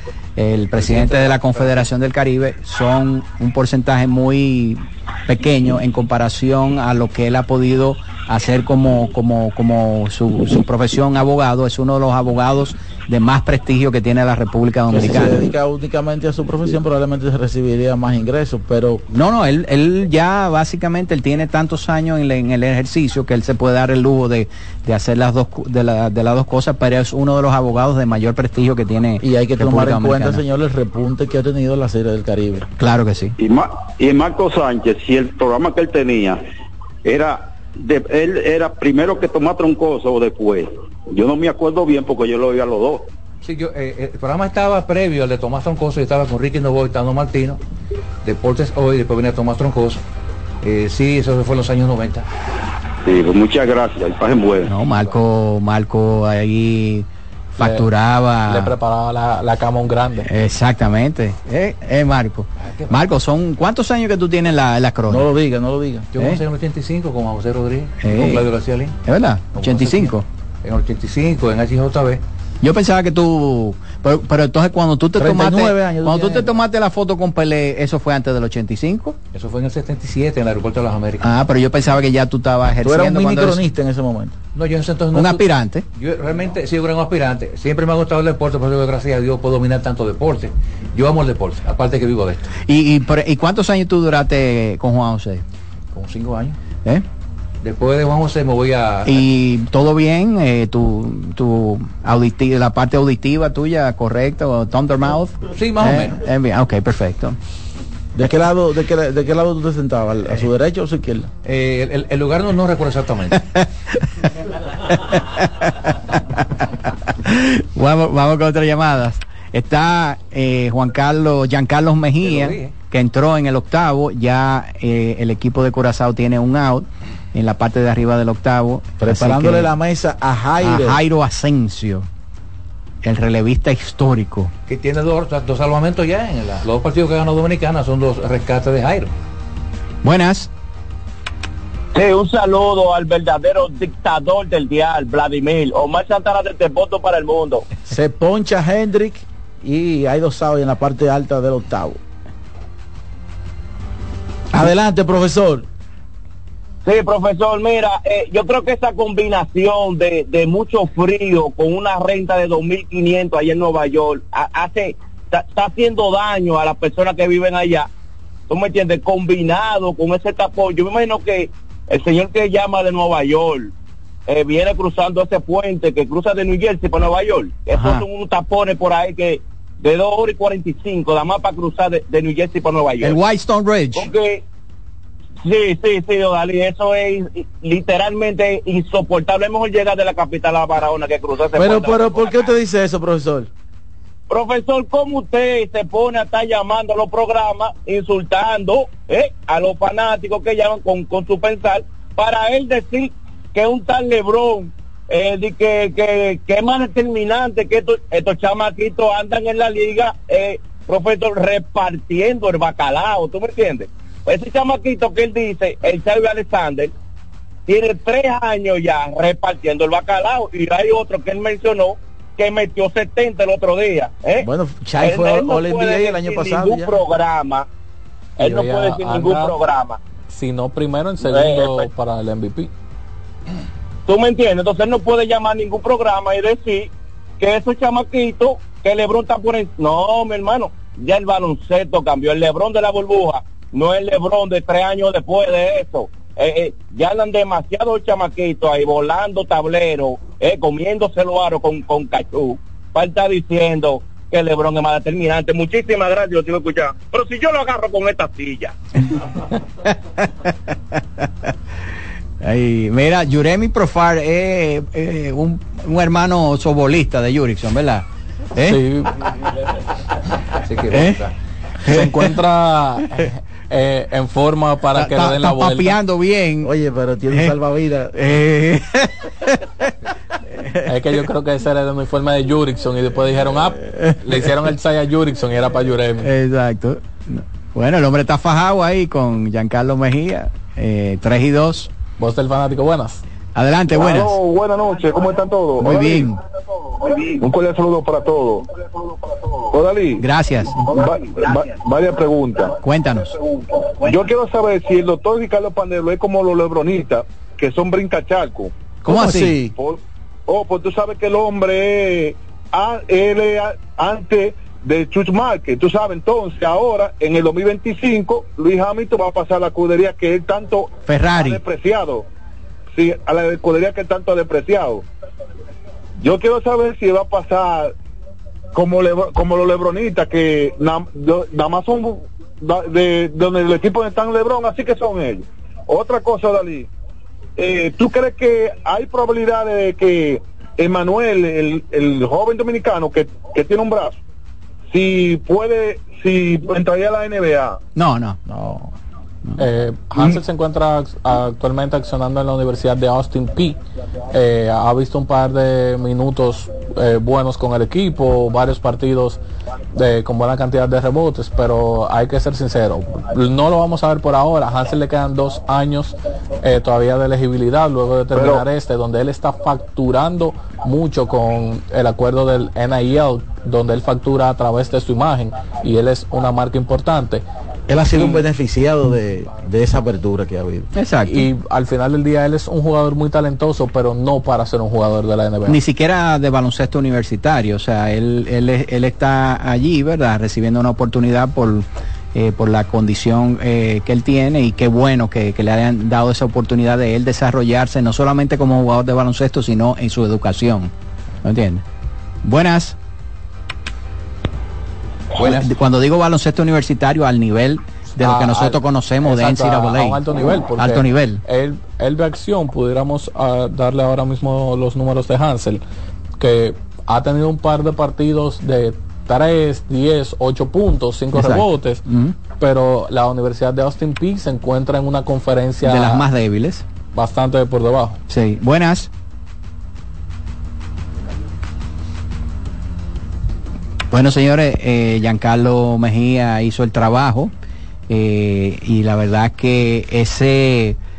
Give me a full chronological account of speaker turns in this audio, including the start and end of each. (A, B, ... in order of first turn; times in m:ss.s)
0:00.4-0:15.4 A
0:00.8-0:01.8 B
0:14.9-0:19.0 C
0:19.1-0:30.4 A
0:29.2-0:32.7 C
0:32.8-0:33.3 A
0:33.4-0:36.4 D
0:37.1-0:37.4 D
0:37.9-0:43.0 D
0:43.4-0:47.6 B
0:48.2-0:50.0 B
0:50.6-0:52.2 B
0:53.1-0:54.7 D
0:54.6-0:57.0 A
0:57.6-0:57.9 E
0:57.6-0:58.7 A
0:58.4-1:00.3 E
1:00.3-1:05.2 A
1:02.6-1:03.0 B
1:05.1-1:06.1 C
1:06.1-1:09.0 B
1:08.0-1:08.4 A
1:09.0-1:10.2 A
1:09.5-1:12.2 B
1:12.6-1:19.2 A
1:15.2-1:16.5 C
1:19.3-1:21.4 B
1:21.2-1:23.6 A
1:22.8-1:24.3 C
1:24.5-1:32.5 B
1:25.1-1:25.8 A
1:32.7-1:35.4 A
1:35.9-1:36.6 B
1:37.6-1:39.2 B
1:39.0-1:47.4 A
1:45.5-1:46.2 B
1:48.1-1:51.3 C
1:51.4-1:53.4 B
1:54.9-1:55.7 A
1:56.4-1:56.6 A
1:57.2-2:09.7 A
2:02.2-2:02.7 B
2:09.0-2:11.0 C
2:10.6-2:12.1 A
2:13.0-2:14.5 A
2:14.7-2:19.1 B
2:20.0-2:20.5 A
2:21.9-2:27.6 F
2:27.8-2:32.0 C
2:34.5-2:35.7 C
2:36.8-2:47.9 F
2:48.5-2:53.7 F
2:54.3-3:03.2 F
2:57.7-2:58.0 A
3:03.0-3:04.1 A
3:04.0-3:04.4 F
3:05.4-3:12.5 F
3:11.5-3:13.5 C
3:14.3-3:36.9 F
3:37.7-3:44.4 F
3:44.4-3:47.0 C
3:45.0-3:47.6 F
3:48.4-3:49.6 E
3:48.4-3:50.0 F
3:50.3-3:52.7 E
3:51.2-3:51.9 F
3:54.1-3:56.9 F
3:57.4-4:18.7 F
4:19.8-4:21.2 A
4:22.4-4:28.0 A
4:28.6-4:29.1 E
4:30.6-4:31.3 B
4:31.8-4:32.3 A
4:31.9-4:36.0 E
4:35.0-4:36.7 A
4:36.6-4:38.4 C
4:38.2-4:39.5 A
4:40.9-4:46.3 E
4:46.2-4:51.9 A
4:52.2-4:53.2 E
4:53.5-4:54.4 A
4:53.9-4:56.3 G
4:55.8-4:56.4 A
4:57.0-4:58.6 G
4:59.6-5:00.2 G
5:00.2-5:00.8 A
5:00.8-5:02.7 G
5:02.8-5:03.3 A
5:03.9-5:08.7 G
5:09.0-5:09.6 A
5:09.0-5:09.7 C
5:09.7-5:22.2 G
5:21.1-5:21.6 A
5:22.9-5:25.0 G
5:26.2-5:27.9 G
5:28.7-5:36.9 G
5:37.6-5:44.2 G
5:44.9-5:47.8 G
5:48.0-5:48.4 A
5:48.5-5:48.9 C
5:49.6-5:53.8 E
5:54.3-5:59.4 E
5:59.9-6:17.4 E
6:08.3-6:08.6 G
6:17.9-6:20.9 C
6:20.9-6:21.5 A
6:21.2-6:25.8 E
6:25.7-6:40.9 A
6:41.4-6:41.8 A
6:42.4-6:43.0 A
6:45.4-6:45.7 B
6:45.4-6:51.4 A
6:48.2-6:55.8 E
6:56.4-7:02.0 E
7:01.3-7:02.3 A
7:02.6-7:06.3 E
7:05.8-7:06.8 A
7:07.1-7:08.2 E
7:08.3-7:09.1 A
7:14.1-7:17.5 A
7:18.1-7:21.0 A